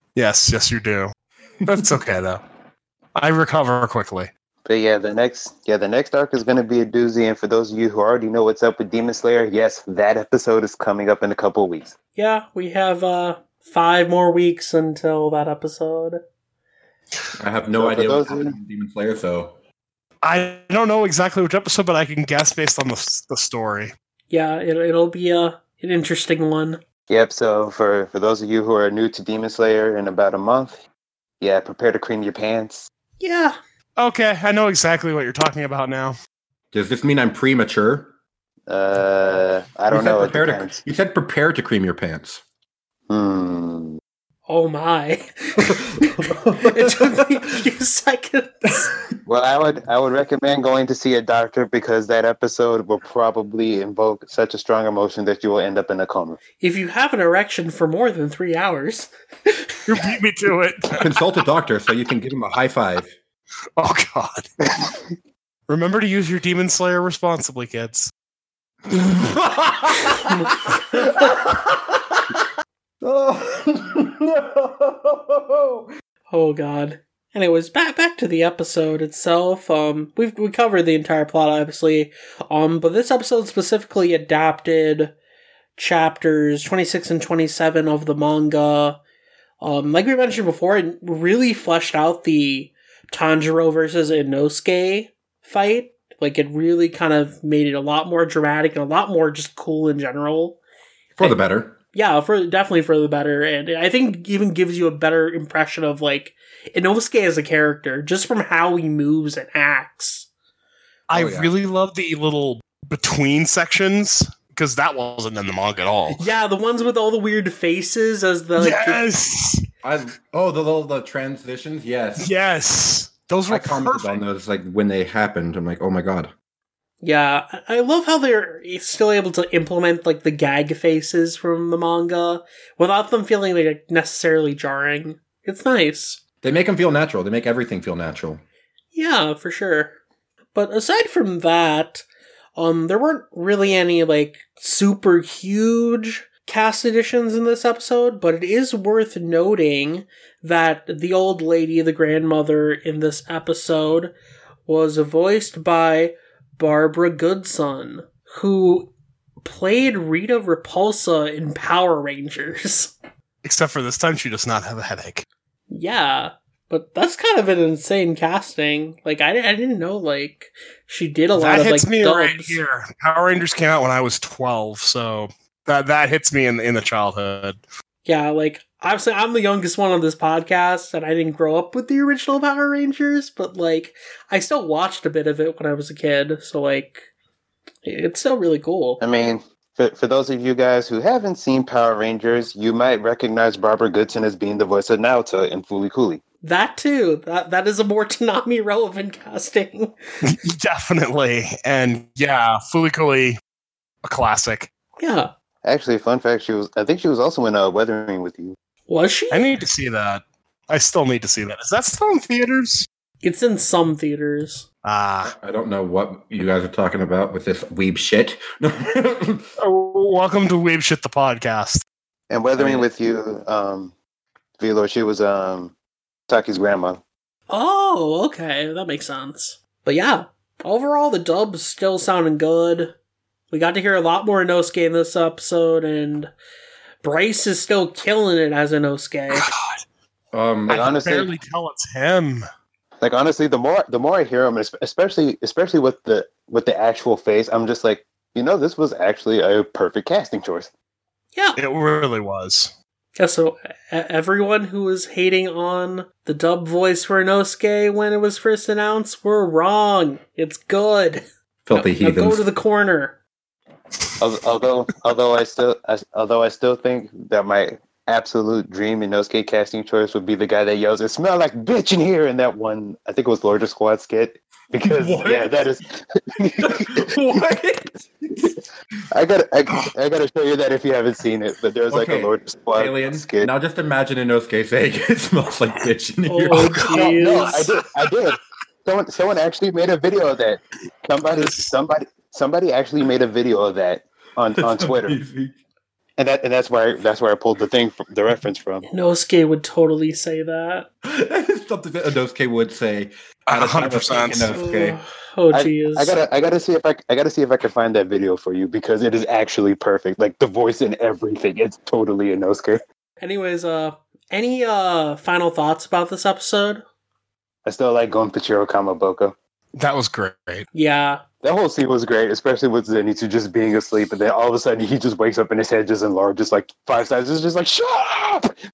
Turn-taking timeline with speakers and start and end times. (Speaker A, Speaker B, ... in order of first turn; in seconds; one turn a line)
Speaker A: 0.1-1.1
Speaker A: 1.6-2.4
Speaker A: 3.1-4.3
Speaker B: 4.7-11.9
Speaker C: 12.2-16.2
Speaker D: 17.4-19.5
Speaker B: 17.7-18.6
Speaker A: 20.2-23.9
Speaker C: 24.3-26.8
Speaker B: 27.1-30.8
Speaker B: 31.4-32.9
Speaker C: 33.2-33.5
Speaker A: 34.0-36.1
Speaker D: 36.7-38.1
Speaker B: 38.7-40.8
Speaker D: 39.9-42.4
Speaker B: 43.1-44.0
Speaker C: 44.5-48.9
Speaker D: 45.6-47.2
Speaker B: 49.2-56.4
Speaker C: 56.6-59.7
Speaker A: 59.9-61.1
Speaker D: 61.0-63.1
Speaker A: 63.8-64.5
Speaker A: 65.7-68.1
Speaker D: 69.0-72.4
Speaker C: 70.9-71.3
Speaker D: 73.0-75.9
Speaker C: 76.3-85.1
Speaker C: 85.8-89.0
Speaker C: 89.6-100.6
Speaker D: 101.2-101.7
Speaker C: 101.9-110.3
Speaker A: 111.1-116.2
Speaker D: 111.1-111.5
Speaker C: 116.1-119.0
Speaker A: 118.6-119.6
Speaker D: 119.8-122.3
Speaker A: 122.2-124.2
Speaker D: 123.5-126.3
Speaker C: 127.0-136.2
Speaker D: 136.4-138.4
Speaker C: 138.9-140.0
Speaker C: 140.5-142.0
Speaker C: 142.6-154.1
Speaker C: 154.7-158.9
Speaker C: 159.4-162.9
Speaker A: 163.4-165.2
Speaker C: 165.7-172.6
Speaker A: 171.3-177.6
Speaker C: 178.1-187.1
Speaker C: 187.8-189.0
Speaker B: 189.0-196.2
Speaker C: 196.4-199.9
Speaker A: 200.2-203.4
Speaker A: 204.0-204.7
Speaker C: 205.0-205.3
Speaker B: 205.6-208.6
Speaker C: 208.9-209.5
Speaker A: 209.3-212.9
Speaker C: 213.2-214.7
Speaker A: 214.8-215.3
Speaker D: 215.3-219.5
Speaker A: 219.6-221.8
Speaker B: 222.3-223.9
Speaker D: 222.6-222.9
Speaker B: 224.6-225.7
Speaker B: 226.3-227.0
Speaker C: 227.5-232.9
Speaker C: 233.5-236.3
Speaker C: 237.0-239.5
Speaker A: 239.3-239.8
Speaker D: 240.3-240.9
Speaker B: 240.7-241.3
Speaker A: 240.7-242.4
Speaker B: 243.0-250.7
Speaker A: 251.6-252.7
Speaker C: 253.2-263.2
Speaker D: 261.6-262.4
Speaker B: 264.2-277.1
Speaker D: 274.8-275.6
Speaker D: 276.6-278.6
Speaker B: 279.1-283.5
Speaker D: 281.9-287.2
Speaker C: 286.3-287.6
Speaker B: 286.9-295.2
Speaker D: 294.6-295.5
Speaker B: 296.2-298.9
Speaker C: 298.9-300.9
Speaker D: 301.0-305.0
Speaker A: 303.5-304.6
Speaker C: 304.5-306.1
Speaker B: 305.5-312.8
Speaker C: 313.2-316.8
Speaker B: 317.6-319.3
Speaker A: 319.7-320.7
Speaker C: 320.7-321.2
Speaker B: 321.4-328.5